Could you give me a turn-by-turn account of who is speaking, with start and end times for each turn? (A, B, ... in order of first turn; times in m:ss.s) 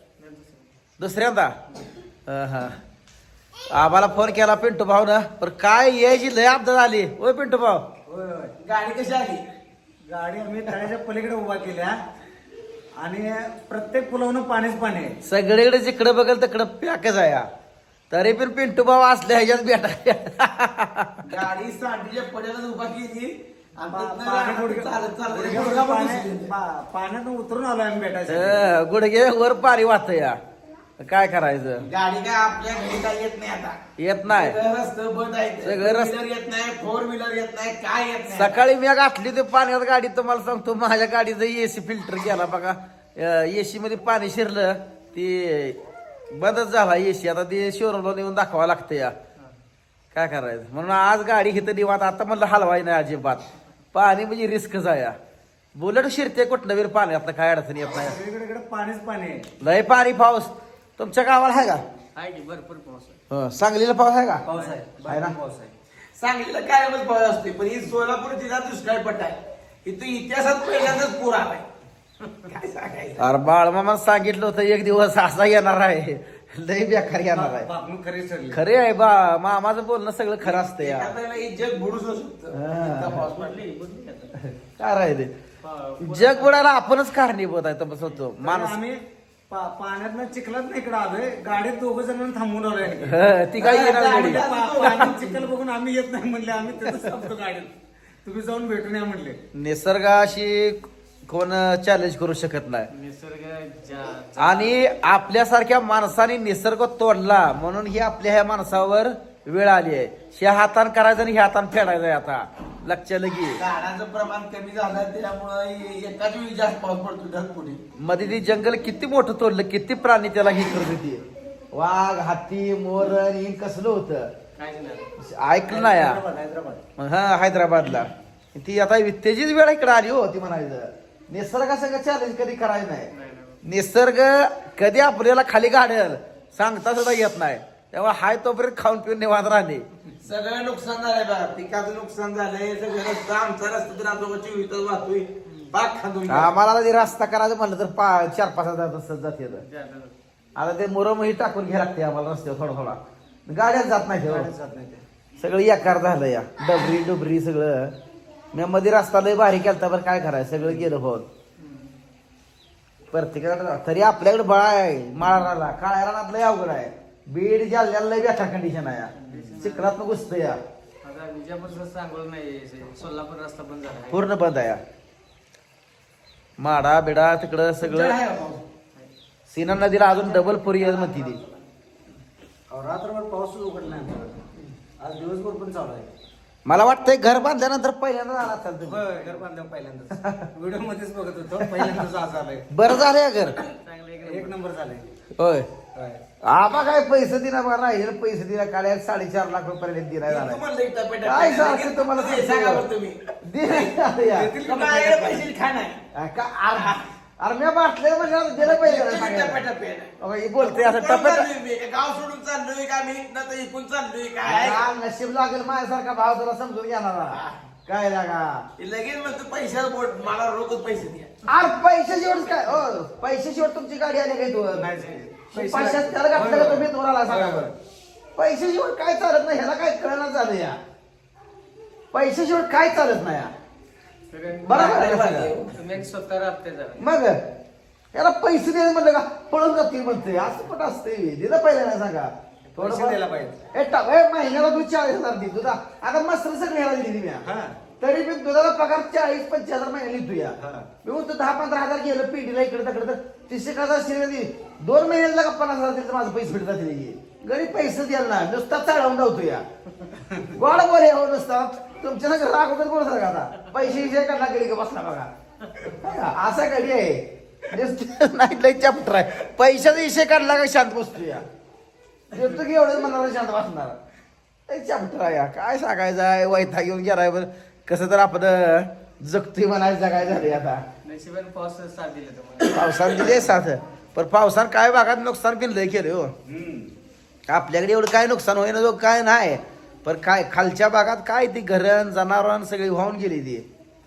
0:00.2-0:00.7 A
0:01.0-0:01.6 B
0:02.3-0:02.8 B
0:03.7-0:07.8 B
0:08.1-0:08.5 C
0:08.6-0:09.4 D
0:10.1-0:12.0 C
0:13.0-0:15.2 C
0:15.2-0:17.5 B
0:18.1-0:21.2 B
0:21.2-0:26.5 D
0:23.9-0:28.7 C
0:28.3-0:30.4 B
0:31.0-0:31.9 B
0:31.8-0:38.6 D
0:34.0-0:34.6 B
0:35.6-0:36.1 B
0:38.3-0:45.8 B
0:46.3-0:49.1 B
0:50.1-0:55.2 B
0:55.8-0:58.2 B
0:57.9-0:59.5 C
0:59.6-1:01.8 B
1:02.2-1:03.2 A
1:03.3-1:04.4 B
1:04.5-1:05.8 C
1:05.1-1:05.3 B
1:06.2-1:11.7 D
1:12.5-1:13.3 D
1:13.2-1:17.7 B
1:17.1-1:18.6 C
1:18.5-1:21.1 B
1:20.4-1:23.6 D
1:22.5-1:23.2 B
1:23.2-1:24.3 A
1:24.4-1:25.3 B
1:25.6-1:26.6 A
1:26.0-1:28.8 B
1:28.3-1:37.7 C
1:33.0-1:34.9 B
1:33.6-1:35.4 D
1:38.2-1:39.4 C
1:39.6-1:42.9 B
1:42.9-1:44.8 A
1:44.4-1:53.6 B
1:53.6-1:57.8 D
1:58.0-2:04.3 B
2:04.6-2:05.1 A
2:05.2-2:06.2 B
2:05.6-2:06.8 C
2:07.0-2:13.1 B
2:13.1-2:13.6 A
2:13.6-2:19.9 B
2:20.2-2:26.5 D
2:26.3-2:29.6 B
2:29.6-2:30.2 A
2:30.6-2:34.5 B
2:34.2-2:35.0 C
2:35.4-2:37.9 B
2:38.5-2:41.2 B
2:41.6-2:41.9 A
2:43.1-2:50.6 B
2:49.2-2:49.9 A
2:49.3-2:49.6 C
2:51.0-2:54.3 A
2:54.1-2:54.8 B
2:56.6-2:58.2 B
2:57.8-2:58.6 D
2:59.5-3:01.4 B
3:00.3-3:01.5 D
3:02.7-3:04.4 C
3:05.0-3:06.1 C
3:06.7-3:09.1 B
3:08.8-3:12.7 C
3:10.2-3:10.5 B
3:11.6-3:12.0 B
3:12.7-3:13.6 B
3:13.8-3:14.6 A
3:14.2-3:15.1 C
3:15.4-3:15.7 B
3:15.9-3:16.2 C
3:16.4-3:20.6 B
3:20.3-3:23.2 D
3:21.2-3:22.8 B
3:23.4-3:24.5 B
3:24.2-3:25.5 C
3:24.6-3:26.0 D
3:26.2-3:29.6 B
3:26.7-3:27.0 D
3:28.6-3:34.9 D
3:30.2-3:31.5 B
3:34.4-3:38.7 B
3:37.3-3:37.6 D
3:38.8-3:41.4 D
3:41.5-3:44.9 B
3:44.7-3:47.7 C
3:45.5-3:47.7 B
3:48.4-3:50.8 B
3:52.1-3:53.5 B
3:54.3-3:55.0 A
3:54.6-3:55.5 B
3:54.7-3:55.8 D
3:55.7-3:57.0 A
3:57.0-3:57.4 B
3:58.1-4:03.2 B
4:02.7-4:03.6 C
4:03.7-4:07.4 B
4:07.4-4:07.8 C
4:08.0-4:19.6 B
4:10.6-4:10.9 C
4:20.5-4:31.4 B
4:32.3-4:34.0 B
4:34.7-4:40.8 B
4:41.0-4:43.3 A
4:42.7-4:46.3 B
4:46.4-4:46.9 C
4:47.5-4:53.6 B